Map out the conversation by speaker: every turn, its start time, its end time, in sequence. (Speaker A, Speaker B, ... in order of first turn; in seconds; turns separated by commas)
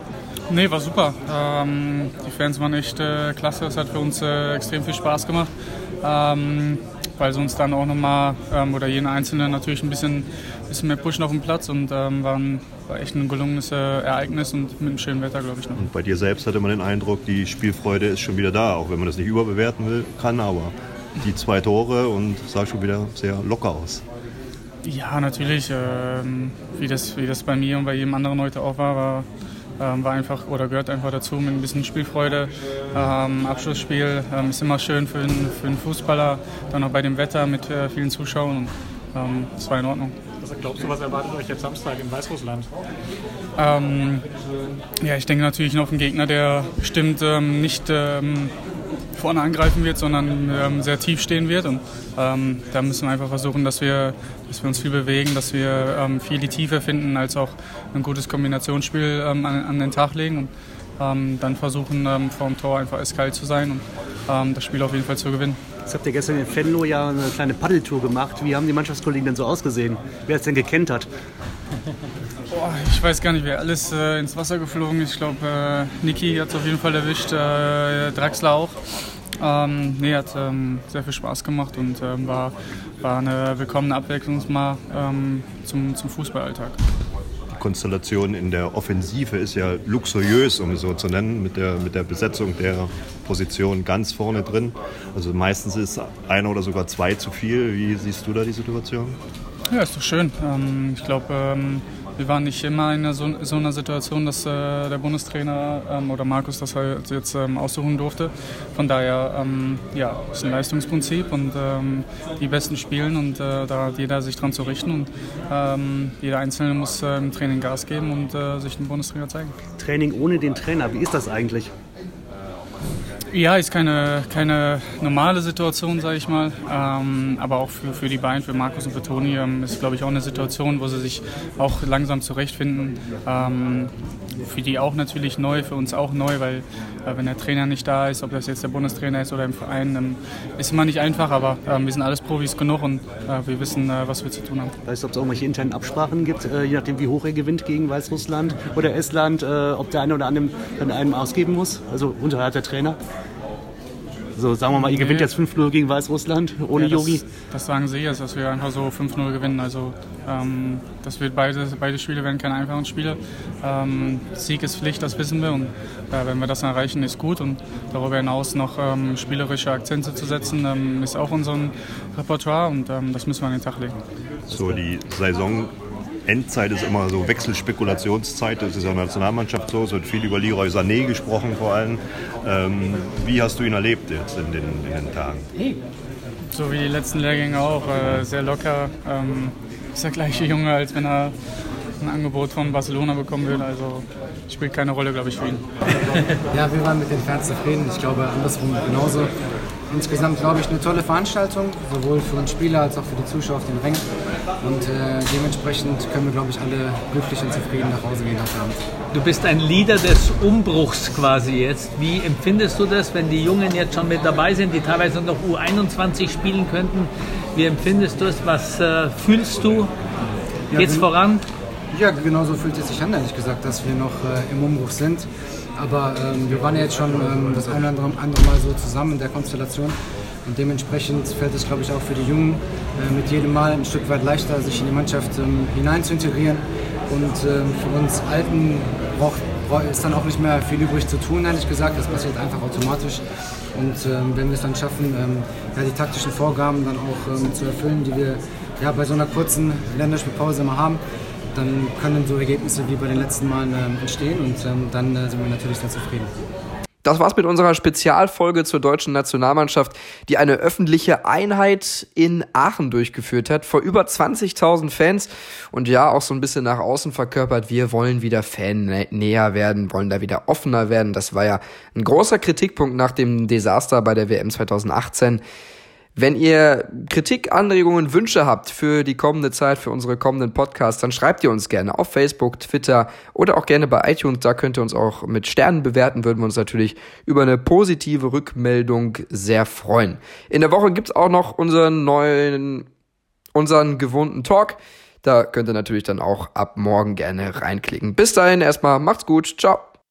Speaker A: 0.5-5.5, Speaker A: 6.0-15.8, Speaker B: 15.8-24.0, Speaker A: 24.8-29.3, Speaker A: 29.8-40.2, Speaker C: 40.4-42.7, Speaker A: 43.6-44.2, Speaker A: 45.0-48.5, Speaker A: 49.1-65.6, Speaker D: 65.9-71.1, Speaker A: 72.5-78.8, Speaker A: 79.4-86.8, Speaker B: 87.5-99.2, Speaker A: 99.7-119.5, Speaker D: 119.8-121.7, Speaker A: 123.3-144.7, Speaker D: 144.9-153.0, Speaker D: 154.4-157.2, Speaker A: 154.8-155.3, Speaker A: 156.8-174.0, Speaker B: 174.5-175.7, Speaker B: 176.3-185.5, Speaker A: 186.5-191.3, Speaker A: 192.0-195.7, Speaker E: 196.5-199.3, Speaker E: 199.9-204.1, Speaker E: 204.6-208.8, Speaker F: 209.1-219.9, Speaker E: 220.7-221.1, Speaker F: 220.7-221.4, Speaker E: 221.9-243.2, Speaker E: 243.7-251.0, Speaker E: 251.5-256.3, Speaker G: 257.0-275.4, Speaker G: 276.2-292.9, Speaker G: 293.6-299.9